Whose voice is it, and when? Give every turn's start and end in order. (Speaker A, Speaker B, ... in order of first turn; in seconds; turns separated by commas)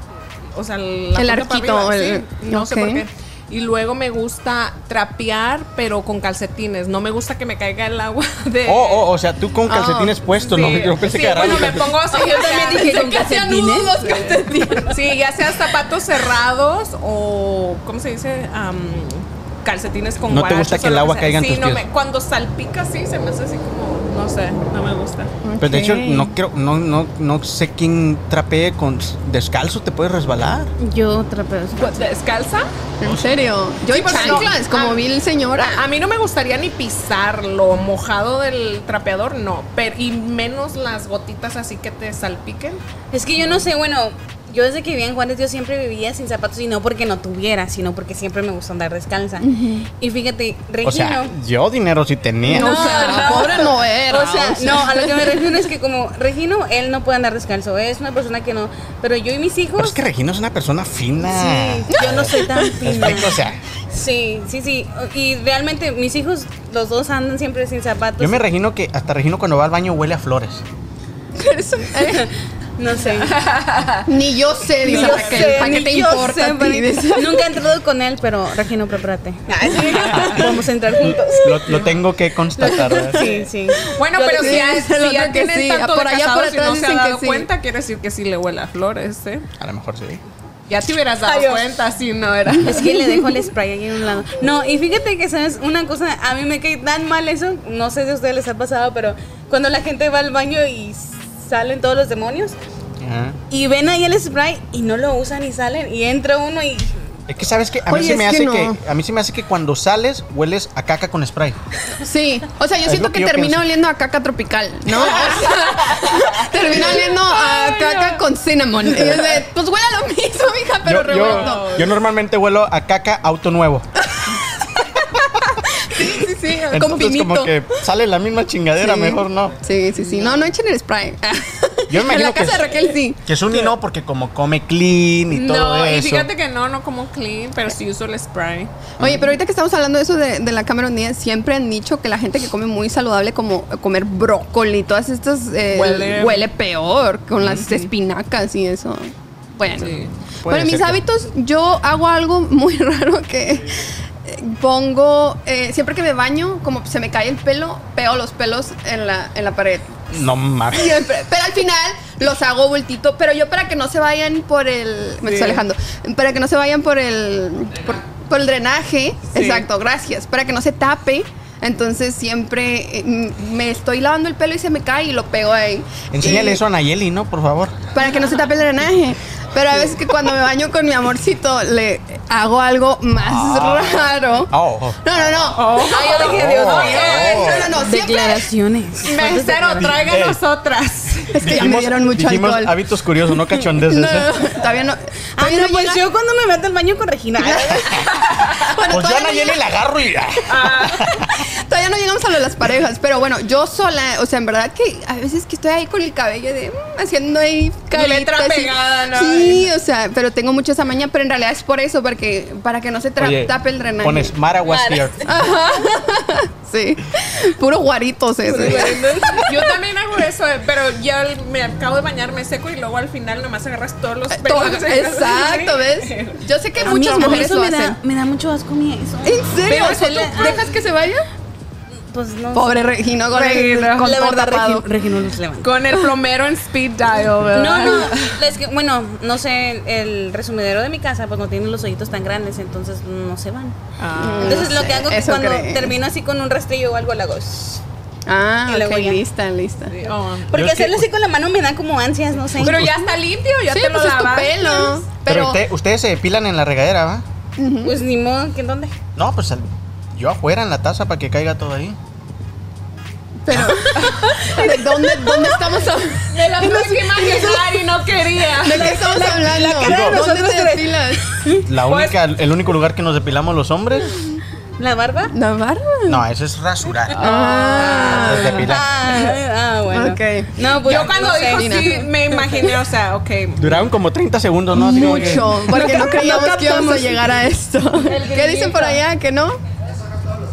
Speaker A: 0.5-9.0, Speaker B: 1.1-3.0, Speaker C: 8.6-12.1, Speaker B: 9.7-10.2, Speaker A: 10.4-13.4, Speaker D: 12.1-14.8, Speaker B: 12.2-15.0, Speaker A: 13.9-25.3, Speaker C: 20.3-21.9, Speaker B: 25.4-26.3, Speaker C: 25.6-30.7, Speaker D: 30.8-32.1, Speaker A: 31.8-32.7, Speaker B: 33.0-35.8, Speaker C: 33.0-33.4, Speaker A: 33.9-35.0, Speaker C: 34.1-34.5, Speaker A: 35.6-42.8, Speaker D: 43.1-49.5, Speaker B: 49.4-49.9, Speaker D: 50.0-51.3, Speaker C: 50.8-53.1, Speaker B: 52.5-55.5, Speaker D: 52.5-60.0, Speaker A: 52.7-53.6, Speaker C: 59.8-63.6, Speaker D: 61.2-68.4, Speaker B: 61.9-62.7, Speaker C: 68.2-70.6, Speaker B: 71.3-72.3, Speaker D: 72.0-73.4, Speaker A: 73.2-74.1, Speaker B: 74.0-77.4, Speaker A: 74.8-75.9, Speaker D: 74.8-82.0, Speaker A: 79.5-80.5, Speaker C: 80.0-83.2, Speaker D: 82.6-84.8, Speaker A: 83.1-89.5, Speaker B: 84.4-87.5, Speaker C: 89.6-90.2, Speaker A: 90.7-93.2, Speaker D: 91.2-91.8, Speaker D: 92.6-102.5, Speaker C: 103.0-103.4, Speaker D: 103.5-107.0, Speaker C: 107.3-111.6, Speaker B: 107.9-108.8, Speaker B: 112.0-121.8, Speaker C: 112.8-113.7, Speaker A: 114.9-118.2, Speaker C: 120.8-123.9, Speaker A: 121.1-121.9, Speaker B: 125.2-127.5, Speaker C: 126.7-129.6, Speaker B: 128.8-133.2, Speaker A: 129.9-130.4, Speaker C: 131.9-136.3, Speaker A: 135.3-138.7, Speaker C: 139.0-139.3, Speaker B: 139.0-160.0, Speaker A: 145.7-146.5, Speaker A: 147.4-147.9, Speaker A: 149.8-150.1, Speaker C: 150.4-151.0, Speaker C: 160.1-161.1, Speaker B: 160.7-176.6, Speaker A: 165.2-165.6, Speaker A: 169.3-169.6, Speaker C: 176.1-177.8, Speaker B: 177.9-188.4, Speaker C: 183.2-185.5, Speaker A: 185.5-187.7, Speaker D: 186.0-190.0, Speaker C: 186.2-187.7, Speaker A: 189.0-191.6, Speaker C: 189.8-190.4, Speaker B: 191.3-192.8, Speaker C: 191.4-194.3, Speaker B: 193.8-196.0, Speaker D: 195.3-198.0, Speaker B: 197.4-199.6, Speaker A: 198.2-198.7, Speaker C: 198.9-201.4, Speaker A: 200.5-201.1, Speaker B: 201.2-214.3, Speaker A: 207.9-209.7, Speaker C: 213.2-215.2, Speaker D: 214.7-215.3, Speaker B: 215.2-219.4, Speaker D: 218.5-219.5, Speaker A: 218.5-227.5, Speaker B: 224.3-228.0, Speaker D: 226.8-230.7, Speaker B: 229.2-231.2, Speaker A: 229.7-230.6, Speaker D: 232.1-235.9, Speaker B: 232.5-234.9, Speaker A: 233.3-234.1, Speaker A: 235.6-238.3, Speaker D: 237.5-243.8, Speaker A: 244.0-244.8, Speaker B: 244.2-245.9, Speaker D: 244.4-247.8, Speaker B: 248.3-250.0, Speaker D: 248.7-249.2, Speaker A: 249.9-250.5, Speaker D: 250.5-252.9, Speaker C: 250.5-251.1, Speaker C: 252.5-252.9, Speaker A: 252.6-255.0, Speaker B: 253.7-255.6, Speaker C: 255.2-257.2, Speaker B: 257.6-257.9, Speaker D: 257.8-258.9, Speaker C: 259.1-262.0, Speaker B: 263.4-267.8, Speaker C: 263.5-263.9, Speaker A: 263.9-265.8, Speaker A: 266.3-269.6, Speaker B: 268.6-271.4, Speaker D: 268.7-271.7, Speaker C: 269.8-270.2, Speaker C: 271.6-274.1, Speaker A: 271.8-272.2, Speaker D: 274.8-275.3, Speaker B: 275.3-276.2, Speaker C: 276.1-278.9, Speaker A: 277.2-278.7, Speaker B: 277.2-278.7, Speaker D: 277.8-282.8, Speaker B: 279.9-280.5, Speaker A: 280.7-283.9, Speaker B: 281.5-281.9, Speaker C: 283.6-285.6, Speaker B: 284.7-289.6, Speaker A: 284.9-287.3, Speaker D: 285.7-286.9, Speaker A: 288.0-289.0